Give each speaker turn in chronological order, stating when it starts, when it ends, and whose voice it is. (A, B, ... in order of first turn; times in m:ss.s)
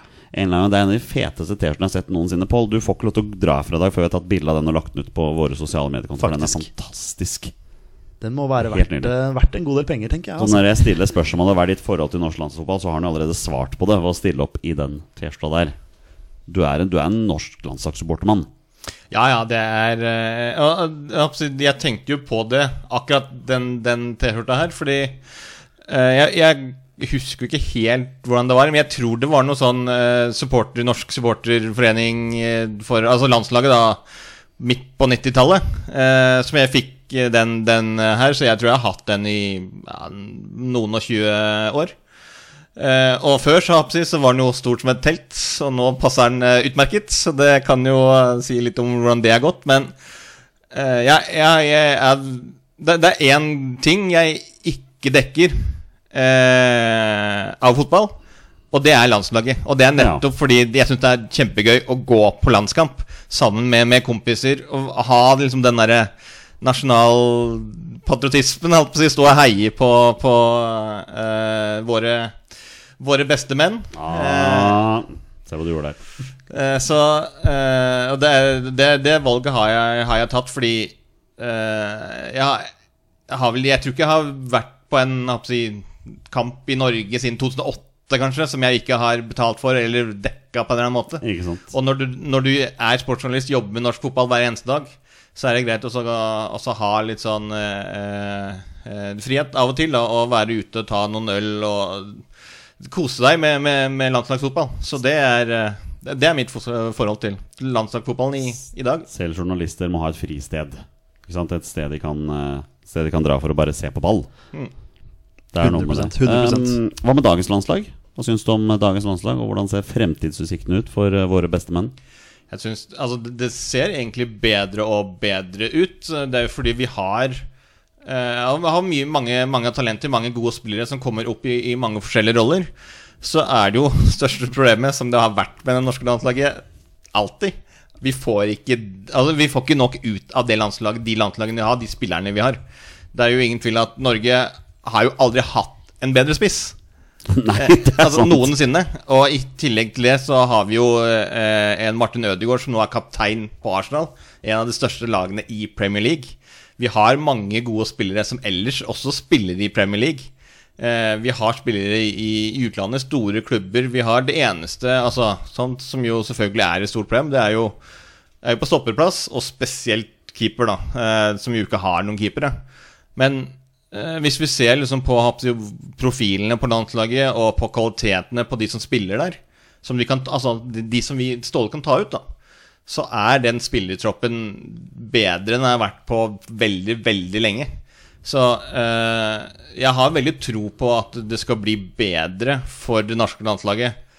0:00.3-0:07.5 A
0:06.2-0:06.7 B
0:08.2-0:10.8 B
0:08.7-0:09.1 A
0:10.4-0:15.8 A
0:16.5-0:18.5 A
0:19.1-0:25.2 C
0:25.9-0:34.0 C
0:34.6-0:41.9 C
0:42.8-0:49.9 C
0:50.7-0:58.1 C
0:58.7-1:12.4 C
1:00.0-1:00.2 A
1:13.0-1:14.8 C
1:14.0-1:16.0 A
1:16.5-1:22.7 C
1:23.3-1:42.2 C
1:31.2-1:31.7 A
1:42.8-1:49.1 C
1:49.1-1:54.3 A
1:55.5-2:01.9 A
1:55.6-1:56.8 B
2:02.5-2:07.4 C
2:08.0-2:12.7 C
2:13.2-2:16.6 C
2:17.1-2:22.6 C
2:23.1-2:26.8 C
2:27.3-2:28.5 A
2:27.6-2:47.8 C
2:48.4-2:52.5 C
2:53.2-3:02.2 C
3:02.9-3:07.7 C
3:08.2-3:13.9 C